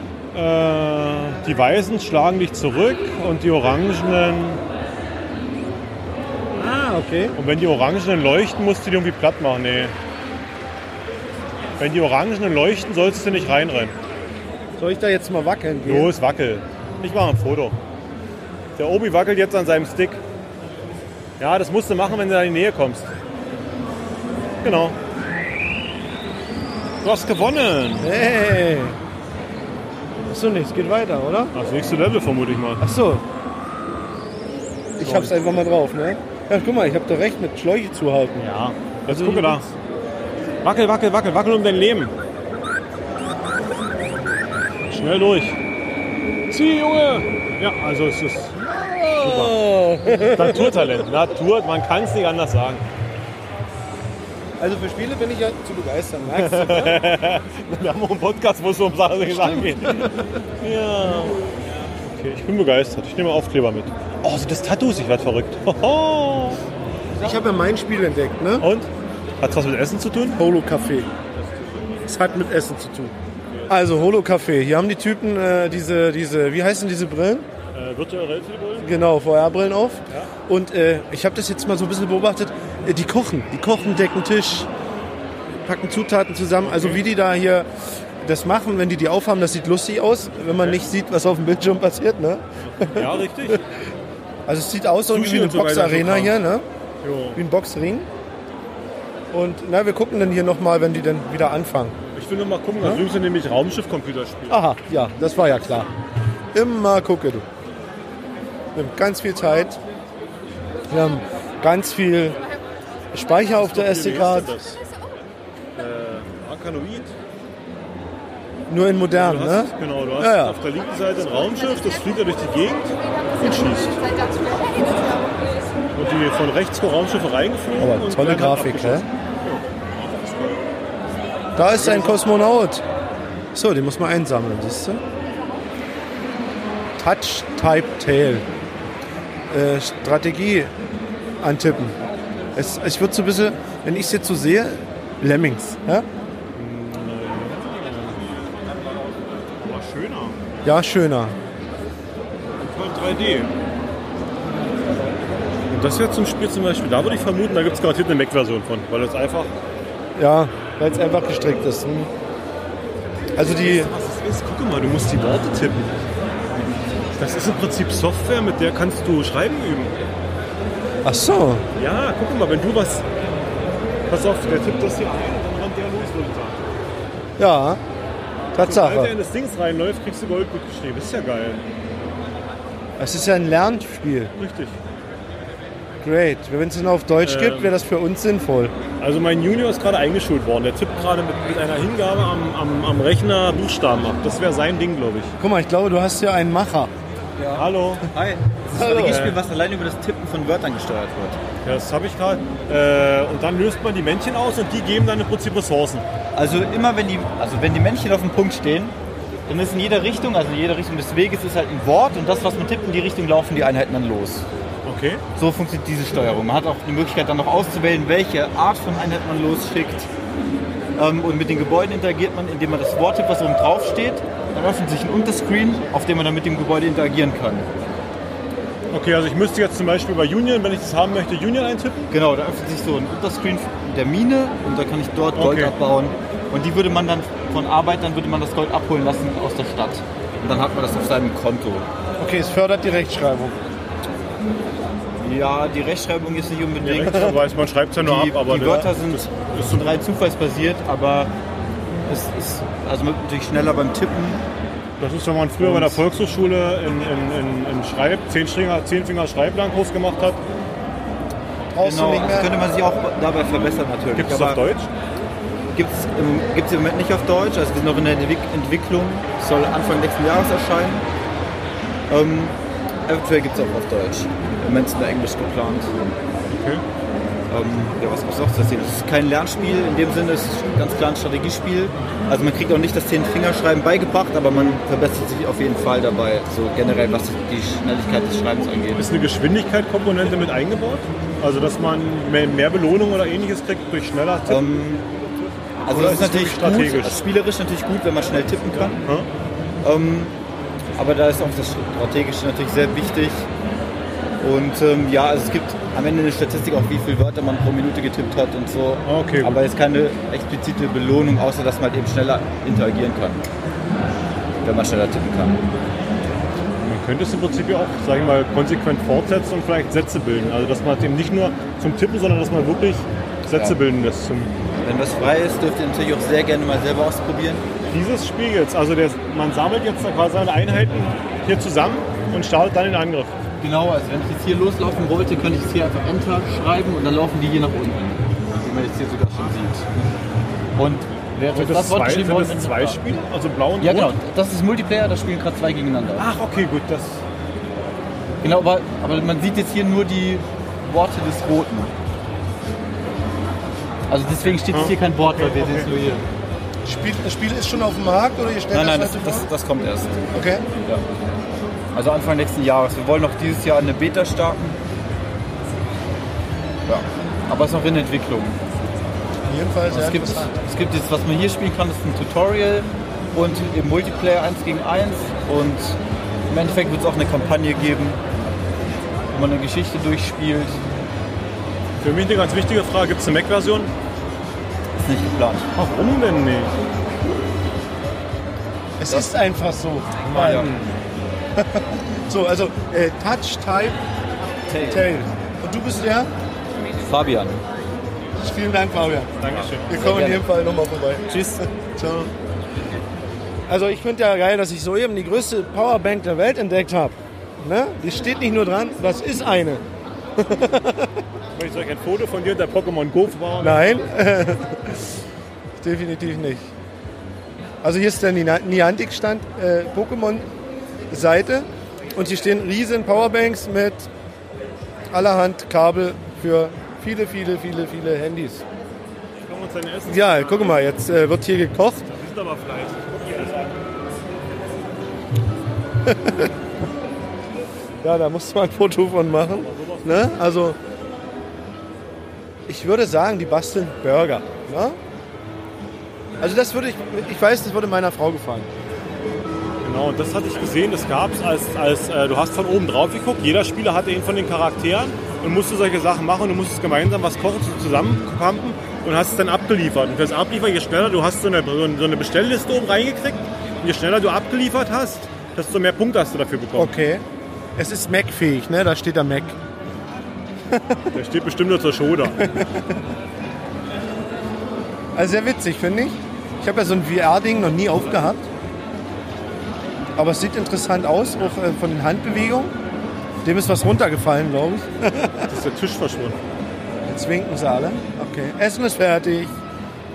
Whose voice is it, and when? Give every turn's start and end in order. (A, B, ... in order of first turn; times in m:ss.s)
0:00.3-0:04.6 A
0:06.5-0:07.3 B
0:07.4-0:09.9 A
0:11.8-0:13.9 A
0:14.8-0:16.1 B
0:15.8-0:17.8 A
0:18.8-0:20.2 A
0:21.4-0:23.2 A
0:24.6-0:25.0 A
0:27.0-0:28.1 A
0:28.0-0:29.0 B
0:30.3-0:31.5 B
0:31.5-0:32.8 A
0:32.8-0:33.2 B
0:35.0-0:38.5 B
0:35.0-0:35.4 A
0:38.4-0:39.7 A
0:39.1-0:39.6 B
0:40.6-0:42.1 A
0:44.9-0:45.6 A
0:46.5-0:49.6 A
0:48.8-0:51.0 B
0:50.2-0:52.8 A
0:54.6-0:57.1 B
0:56.3-1:01.4 A
0:59.3-1:00.4 B
1:02.0-1:06.6 A
1:07.2-1:08.6 B
1:08.6-1:08.9 A
1:09.4-1:10.4 A
1:10.4-1:11.1 B
1:11.3-1:11.9 A
1:12.0-1:13.2 B
1:13.5-1:14.1 A
1:13.7-1:17.5 B
1:17.7-1:18.9 A
1:18.8-1:24.7 B
1:25.5-1:33.6 B
1:26.6-1:27.0 A
1:32.6-1:33.6 A
1:34.4-1:36.6 B
1:35.1-1:36.4 A
1:37.0-1:37.4 A
1:37.3-1:38.1 B
1:39.3-1:42.0 B
1:42.1-1:44.6 A
1:44.5-1:45.9 B
1:46.5-1:47.4 B
1:48.7-1:49.8 B
1:50.9-1:52.4 B
1:53.1-1:54.5 B
1:53.5-1:54.8 A
1:55.7-1:57.1 A
1:58.7-2:00.6 B
1:59.1-2:05.3 A
2:05.9-2:10.7 A
2:07.8-2:09.1 B
2:11.5-2:12.8 B
2:11.6-2:12.2 A
2:13.5-2:15.0 B
2:17.0-2:18.5 B
2:19.5-2:20.7 B
2:21.4-2:22.0 B
2:22.5-2:26.1 B
2:26.5-2:28.4 A
2:29.6-2:30.4 A
2:30.6-2:31.4 B
2:32.6-2:33.5 A
2:35.7-2:39.5 A
2:40.2-2:42.1 B
2:43.4-2:43.9 B
2:43.4-2:45.9 A
2:47.2-2:49.9 A
2:51.0-2:51.6 B
2:51.8-2:53.0 A
2:54.1-2:56.6 A
2:57.4-2:57.8 B
2:58.5-3:01.6 A
2:58.5-2:59.1 B
3:03.0-3:04.3 B
3:04.4-3:04.8 A
3:06.0-3:08.7 B
3:07.2-3:07.7 A
3:09.0-3:15.3 A
3:15.4-3:16.9 B
3:17.4-3:21.4 C
3:17.5-3:18.0 A
3:18.7-3:19.3 B
3:19.0-3:19.4 A
3:21.6-3:26.0 A
3:26.3-3:29.0 C
3:29.5-3:34.5 C
3:34.8-3:35.2 A
3:35.4-3:40.1 C
3:41.0-3:47.7 C
3:48.9-3:52.1 A
3:52.1-4:01.9 C
3:55.3-3:55.7 A
4:02.2-4:03.6 B
4:05.2-4:07.4 C
4:06.8-4:10.0 A
4:08.0-4:11.3 C
4:12.0-4:14.4 C
4:15.0-4:20.4 A
4:15.6-4:16.0 C
4:21.7-4:22.5 B
4:21.8-4:24.6 C
4:24.1-4:24.9 A
4:25.7-4:31.0 C
4:32.1-4:35.9 C
4:36.5-4:36.8 A
4:37.5-4:49.1 C
4:44.5-4:44.8 A
4:48.9-4:54.8 A
4:54.5-4:55.0 C
4:55.8-4:57.2 A
4:55.9-4:59.0 C
4:58.8-4:59.3 A
4:59.8-5:00.3 C
5:01.0-5:03.5 C
5:04.4-5:13.4 C
5:09.0-5:09.6 A
5:14.6-5:15.6 C
5:16.8-5:24.6 A
5:24.8-5:27.6 C
5:27.9-5:33.4 A
5:33.6-5:40.2 C
5:40.8-5:43.0 C
5:41.5-5:44.2 A
5:43.8-5:46.2 C
5:46.2-5:47.2 A
5:48.4-5:51.9 C
5:54.1-5:56.2 C
5:54.7-5:55.9 A
5:56.8-5:59.4 B
5:58.7-6:01.1 C
6:00.3-6:00.6 B
6:01.9-6:04.8 C
6:06.9-6:08.6 C
6:09.4-6:10.5 B
6:09.9-6:16.0 C
6:16.5-6:18.2 C
6:19.3-6:20.8 C
6:22.0-6:23.9 A
6:25.0-6:25.6 C
6:25.7-6:26.7 A
6:29.0-6:30.8 B
6:29.0-6:29.3 C
6:30.2-6:30.9 C
6:31.6-6:34.0 B
6:34.7-6:35.1 C
6:34.9-6:36.3 B
6:37.0-6:37.6 C
6:38.4-6:42.3 B
6:39.4-6:40.0 A
6:39.5-6:40.4 C
6:43.7-6:49.8 B
6:50.4-6:51.2 B
6:51.5-6:54.1 A
6:53.6-6:55.1 B
6:55.8-6:56.7 B
6:57.8-7:00.5 B
7:01.1-7:04.1 B
7:05.1-7:08.6 B
7:09.4-7:10.9 A
7:10.1-7:12.1 B
7:12.1-7:13.8 A
7:16.0-7:16.5 B
7:18.0-7:20.8 B
7:19.5-7:20.4 A
7:22.7-7:25.0 B
7:26.4-7:28.7 B
7:29.8-7:47.0 A
7:46.7-7:47.2 B
7:47.8-7:49.6 B
7:50.7-7:51.0 B
7:51.1-7:52.6 A
7:52.4-7:53.0 B
7:55.1-7:58.4 B
8:00.2-8:02.7 B
8:03.4-8:05.5 B
8:05.5-8:06.4 A
8:07.0-8:09.6 B